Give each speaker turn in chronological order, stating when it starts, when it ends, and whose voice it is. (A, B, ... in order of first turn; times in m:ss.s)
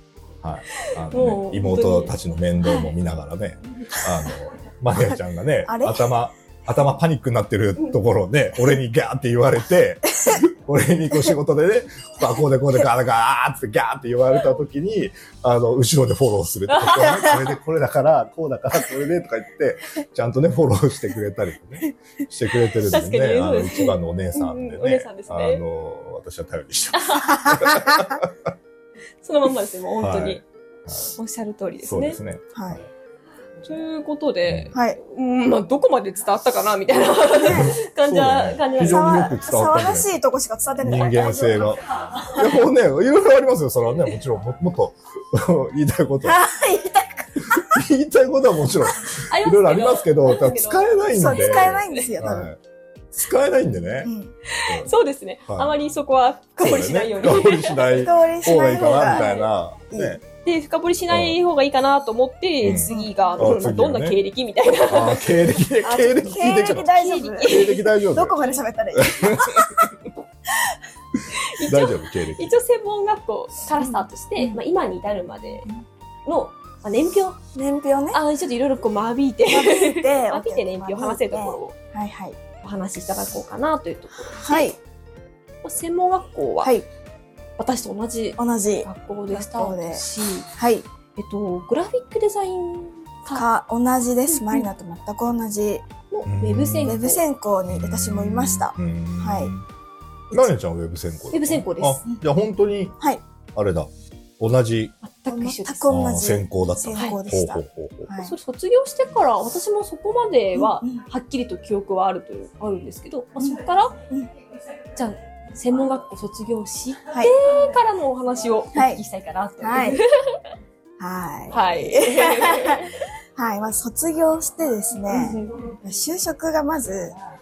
0:00.4-0:28.3 A
0:00.7-0:02.1 B
0:05.7-0:06.1 C
0:22.9-0:25.6 B
0:26.9-0:27.4 B
0:29.2-0:30.4 B
0:30.0-0:31.1 A
0:31.1-0:32.2 B
0:31.8-0:32.8 A
0:32.6-0:32.8 C
0:33.6-0:39.2 B
0:34.5-0:34.7 A
0:37.4-0:37.8 C
0:37.5-0:40.1 A
0:38.8-0:41.7 C
0:40.8-0:46.5 A
0:46.2-0:47.8 C
0:47.4-0:52.6 A
0:49.3-0:52.1 B
0:51.1-0:52.5 C
0:53.1-0:54.1 A
0:54.0-0:54.3 C
0:54.5-0:58.1 B
0:54.6-0:54.9 A
0:55.5-0:55.7 A
0:56.6-1:00.2 A
0:57.9-0:59.3 C
0:58.8-0:59.5 B
0:59.9-1:00.2 C
1:00.4-1:05.3 B
1:01.1-1:01.4 A
1:02.6-1:04.2 A
1:02.9-1:03.1 C
1:04.9-1:06.9 A
1:05.8-1:09.9 C
1:06.6-1:07.8 B
1:07.4-1:09.9 A
1:11.4-1:15.7 B
1:11.6-1:12.6 A
1:13.8-1:14.6 C
1:16.2-1:17.4 B
1:17.6-1:18.2 C
1:18.1-1:21.7 B
1:19.5-1:22.4 C
1:22.6-1:24.7 B
1:24.3-1:24.8 C
1:25.6-1:26.7 B
1:27.6-1:30.5 B
1:28.4-1:30.0 C
1:30.6-1:30.9 C
1:31.2-1:33.4 B
1:33.3-1:35.9 C
1:34.3-1:34.7 B
1:36.1-1:37.2 B
1:36.2-1:37.0 A
1:36.8-1:39.5 C
1:37.7-1:39.6 A
1:40.3-1:43.0 A
1:41.3-1:42.0 B
1:43.6-1:45.0 A
1:45.0-1:46.0 B
1:45.3-1:48.3 C
1:45.9-1:48.1 A
1:48.2-1:54.0 B
1:50.6-1:51.0 C
1:53.4-1:54.3 C
1:55.0-2:00.4 B
1:58.8-1:59.0 C
1:59.6-2:00.0 C
2:01.0-2:02.8 C
2:01.5-2:02.9 B
2:03.4-2:07.1 C
2:05.1-2:05.7 B